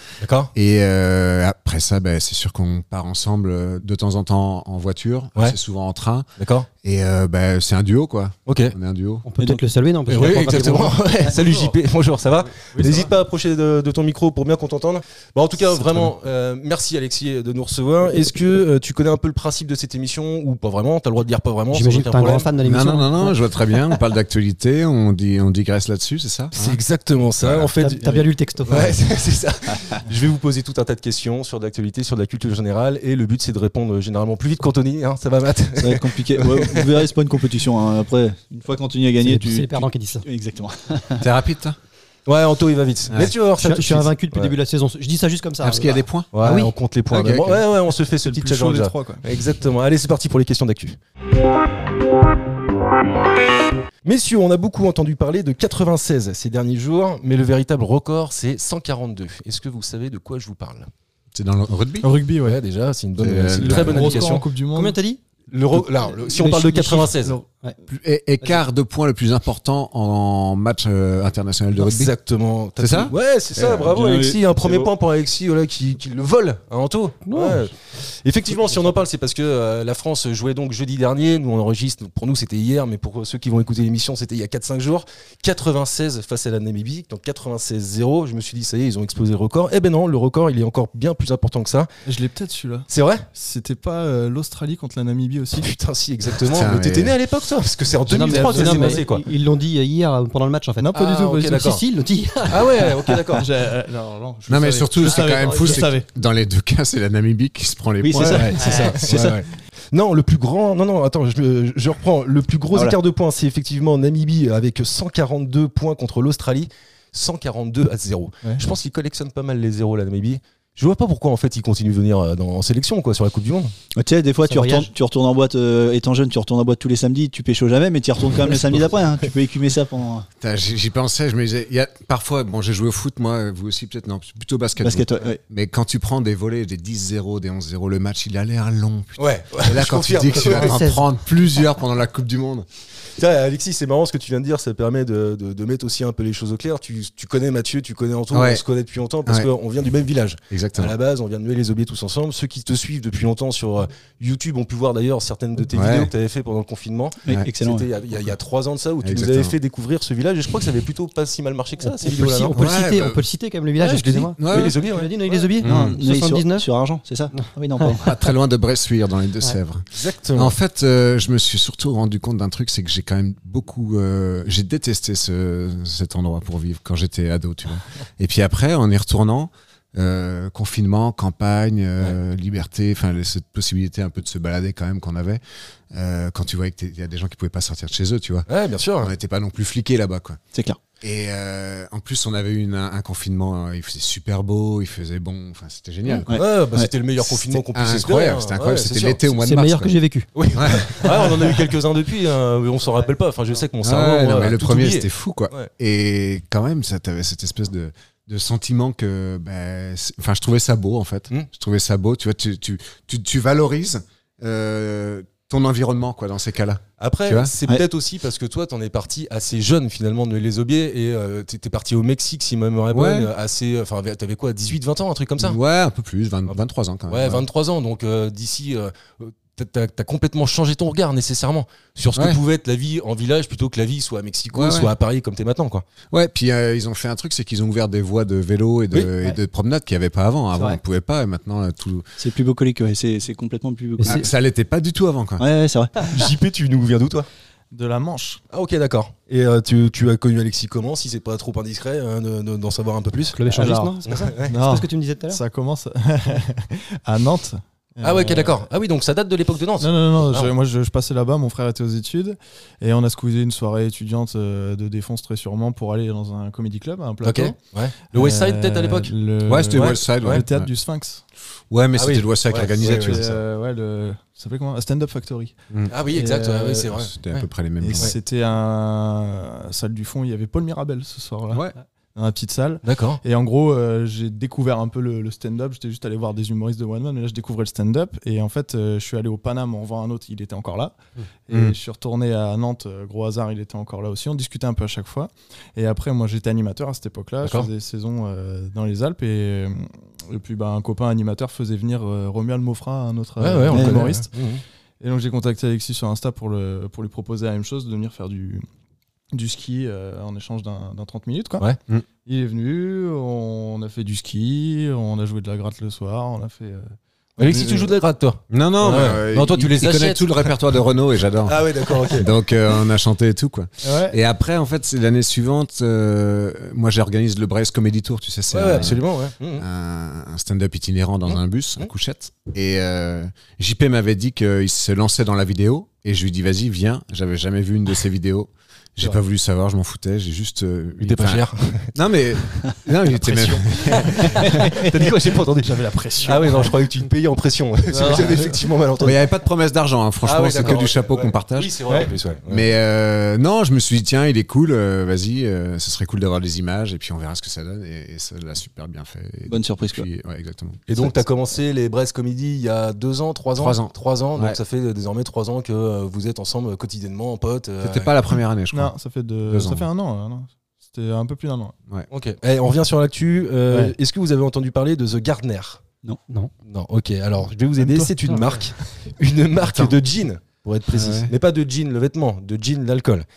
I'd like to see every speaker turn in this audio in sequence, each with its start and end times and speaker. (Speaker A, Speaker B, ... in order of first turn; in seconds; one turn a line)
Speaker A: 0.2-0.5
Speaker B: 0.5-6.3
Speaker A: 6.4-6.7
Speaker B: 6.8-9.2
Speaker A: 8.5-8.8
Speaker C: 9.2-11.4
Speaker A: 10.1-22.5
Speaker B: 15.7-16.1
Speaker C: 21.7-23.3
Speaker B: 22.6-26.8
Speaker A: 26.5-37.1
Speaker B: 27.4-27.7
Speaker C: 27.8-29.0
Speaker D: 35.8-41.2
Speaker C: 39.2-40.2
Speaker B: 41.2-41.8
Speaker A: 42.2-44.5
Speaker C: 43.6-46.7
Speaker B: 45.6-46.3
Speaker A: 46.3-51.0
Speaker B: 47.1-47.6
Speaker E: 48.2-49.2
Speaker A: 54.0-60.9
Speaker B: 61.3-62.1
Speaker E: 62.0-62.6
Speaker A: 62.4-64.5
Speaker B: 63.2-64.2
Speaker E: 63.6-65.0
Speaker C: 64.7-65.2
Speaker A: 65.5-67.4
Speaker E: 66.3-67.4
Speaker C: 66.4-67.1
Speaker B: 67.9-72.1
Speaker A: 71.8-91.9
Speaker B: 72.8-73.9
Speaker D: 73.9-74.9
Speaker C: 77.2-77.7
Speaker E: 92.1-95.7
Speaker A: 92.9-93.3
Speaker A: 95.6-99.2
Speaker B: 96.5-97.2
Speaker C: 98.1-103.1
Speaker E: 98.2-99.1
Speaker E: 100.8-101.5
Speaker A: 100.9-101.8
Speaker A: 102.5-103.5
Speaker E: 103.3-106.1
Speaker B: 104.5-108.7
Speaker D: 108.0-109.3
Speaker E: 108.2-109.0
Speaker A: 108.3-123.7
Speaker C: 108.6-108.9
Speaker D: 124.0-130.3
Speaker C: 124.5-124.9
Speaker B: 130.4-142.7
Speaker D: 134.8-135.4
Speaker A: 139.2-140.8
Speaker C: 140.5-141.0
Speaker A: 143.2-162.7
Speaker B: 148.3-148.6
Speaker B: 150.5-151.0
Speaker B: 155.7-156.1
Speaker D: 157.2-157.8
Speaker B: 159.0-159.5
Speaker C: 161.8-166.7
Speaker B: 162.5-163.2
Speaker A: 163.8-165.1
Speaker B: 164.4-164.8
Speaker B: 165.6-166.0
Speaker D: 165.6-168.1
Speaker C: 167.3-168.0
Speaker B: 168.0-188.5
Speaker A: 169.9-170.6
Speaker A: 188.5-189.1
Speaker B: 189.0-190.4
Speaker B: 191.0-196.3
Speaker D: 196.2-196.9
Speaker A: 196.3-199.2
Speaker B: 197.3-199.9
Speaker C: 199.4-200.3
Speaker A: 200.3-205.7
Speaker B: 200.5-201.1
Speaker B: 203.8-217.5
Speaker A: 217.0-225.6
Speaker B: 222.9-223.3
Speaker B: 225.4-227.5
Speaker A: 227.1-235.8
Speaker B: 232.2-232.4
Speaker B: 234.5-234.9
Speaker B: 236.1-242.1
Speaker D: 242.2-244.3
Speaker C: 244.0-244.3
Speaker B: 244.1-245.4
Speaker D: 245.4-246.2
Speaker A: 246.0-247.3
Speaker E: 247.7-248.4
Speaker A: 248.5-254.5
Speaker C: 253.3-255.4
Speaker E: 253.5-258.6
Speaker A: 258.0-260.5
Speaker E: 259.8-267.6
Speaker A: 267.2-269.1
Speaker E: 268.1-271.2
Speaker B: 269.5-270.7
Speaker A: 269.7-270.4
Speaker B: 271.7-273.4
Speaker A: 271.9-273.2
Speaker E: 272.8-275.5
Speaker A: 275.9-278.1
Speaker E: 276.1-276.9
Speaker B: 277.0-278.1
Speaker E: 277.8-304.3
Speaker A: 282.9-283.2
Speaker A: 297.4-297.7
Speaker A: 303.4-304.6
Speaker D: 303.7-304.1
Speaker E: 305.0-308.6
Speaker E: 309.3-311.7
Speaker E: 312.2-317.9
Speaker A: 317.4-320.6
Speaker B: 318.5-329.0
Speaker A: 321.4-322.5
Speaker E: 323.8-324.2
Speaker A: 328.5-329.6
Speaker B: 329.6-344.6
Speaker A: 341.0-341.9
Speaker A: 343.2-349.2
Speaker D: 344.2-345.1
Speaker E: 345.6-346.7
Speaker E: 347.9-348.6
Speaker B: 349.0-351.8
Speaker A: 350.2-352.8
Speaker B: 352.5-360.9
Speaker D: 359.5-360.1
Speaker A: 360.9-368.1
Speaker B: 363.6-364.6
Speaker B: 367.8-368.9
Speaker E: 368.7-371.8
Speaker B: 369.5-369.9
Speaker A: 372.1-375.8
Speaker A: 376.6-383.3
Speaker E: 377.8-378.1
Speaker B: 379.6-380.0
Speaker B: 380.9-381.3